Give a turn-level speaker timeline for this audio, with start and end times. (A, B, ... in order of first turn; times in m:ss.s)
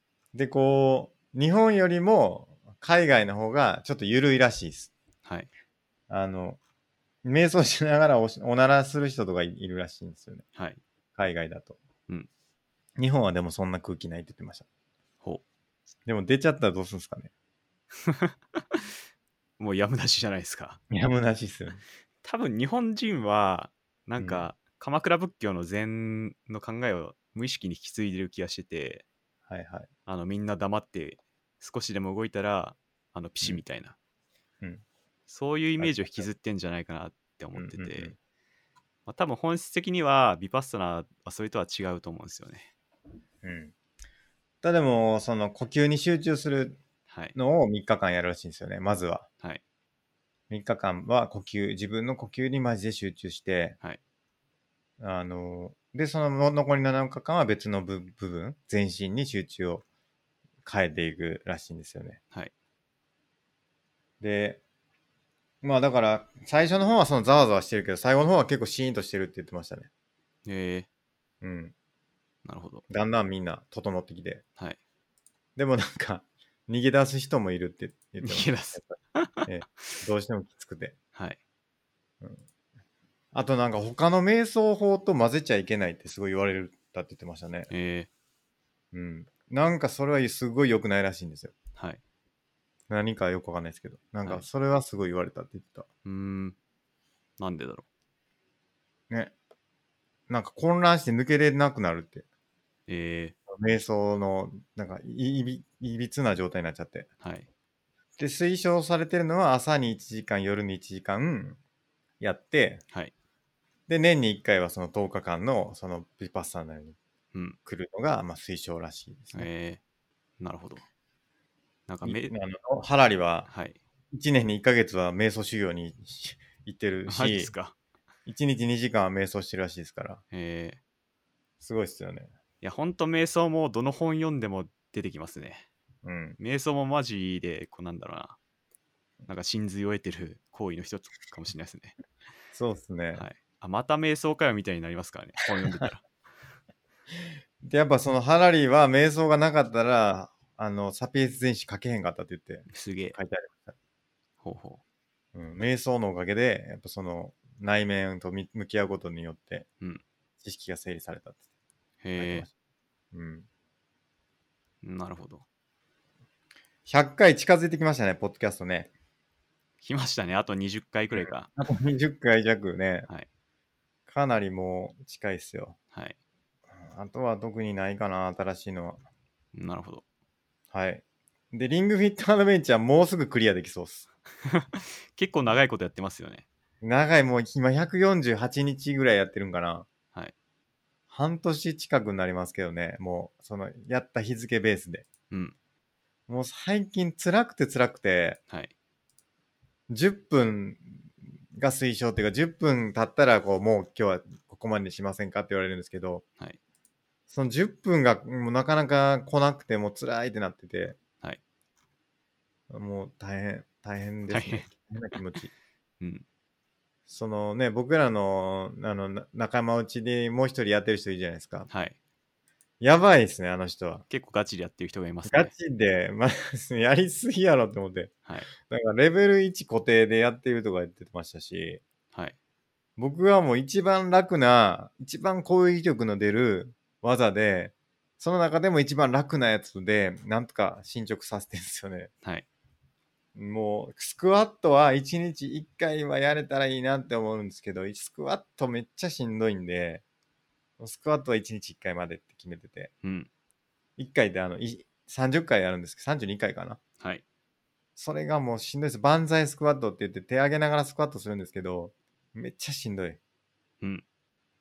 0:00.3-0:04.9 A
0:06.1-0:06.6 A
0:07.2-0:10.4 A
0:11.2-0:11.8 A
0:13.0-0:14.7 A
0:16.1-0:17.3 A
0:18.0-0:18.9 B
0:19.6-0:20.8 B
0:20.9-0:21.8 A
0:22.2-0:29.0 B
0:24.2-0:24.5 A
0:29.5-0:29.9 A
0:30.1-0:34.0 B
0:35.3-0:38.1 B
0:35.8-0:36.3 A
0:37.6-0:38.2 A
0:39.1-0:42.7 B
0:43.4-0:43.7 A
0:44.6-0:46.8 A
0:47.1-0:47.4 B
0:47.4-0:49.3 A
0:50.5-0:53.8 A
0:55.0-0:59.8 A
1:00.6-1:02.2 A
1:04.2-1:04.6 A
1:05.6-1:09.9 A
1:10.5-1:10.9 B
1:11.4-1:11.7 A
1:12.4-1:12.8 B
1:12.9-1:14.4 A
1:15.6-1:21.0 A
1:18.2-1:19.5 B
1:23.3-1:27.7 A
1:27.7-1:28.1 B
1:28.9-1:31.6 A
1:32.9-1:35.9 A
1:36.0-1:36.6 B
1:37.4-1:37.8 B
1:40.3-1:42.2 A
1:42.9-1:43.4 B
1:43.5-1:47.1 A
1:47.2-1:47.5 B
1:48.2-1:51.6 A
1:52.2-1:52.8 A
1:53.9-1:57.0 A
1:57.3-1:57.6 B
1:57.6-1:59.5 A
1:59.3-1:59.8 B
2:00.4-2:00.8 B
2:01.9-2:02.3 B
2:02.0-2:03.5 A
2:03.5-2:03.8 B
2:04.1-2:07.5 A
2:07.1-2:07.8 B
2:08.3-2:10.2 A
2:10.3-2:10.8 B
2:11.6-2:12.3 A
2:12.6-2:15.7 B
2:16.0-2:16.4 A
2:16.4-2:18.4 B
2:19.3-2:22.0 B
2:22.5-2:23.3 A
2:23.2-2:26.0 B
2:27.6-2:33.8 A
2:32.7-2:33.2 B
2:34.4-2:34.8 B
2:35.4-2:39.7 A
2:40.4-2:41.4 A
2:42.0-2:42.5 B
2:42.2-2:42.5 A
2:43.1-2:43.5 A
2:44.8-2:45.4 B
2:46.9-2:48.9 A
2:49.8-2:51.5 B
2:51.1-2:53.1 A
2:54.1-2:55.8 A
2:56.8-2:59.0 A
2:59.6-3:00.0 B
3:00.7-3:04.1 A
3:04.5-3:06.4 B
3:06.8-3:09.9 A
3:11.1-3:15.1 A
3:15.3-3:15.6 B
3:16.3-3:18.4 A
3:19.9-3:21.0 A
3:21.6-3:26.2 A
3:27.3-3:31.0 A
3:32.7-3:35.5 A
3:34.3-3:34.7 B
3:37.1-3:41.7 A
3:41.7-3:42.0 B
3:42.8-3:44.0 A
3:44.1-3:45.5 B
3:45.3-3:48.1 A
3:48.7-3:51.8 A
3:53.0-4:02.1 A
4:03.4-4:10.0 A
4:10.8-4:12.9 A
4:13.0-4:13.3 B
4:14.0-4:16.8 A
4:18.0-4:23.2 A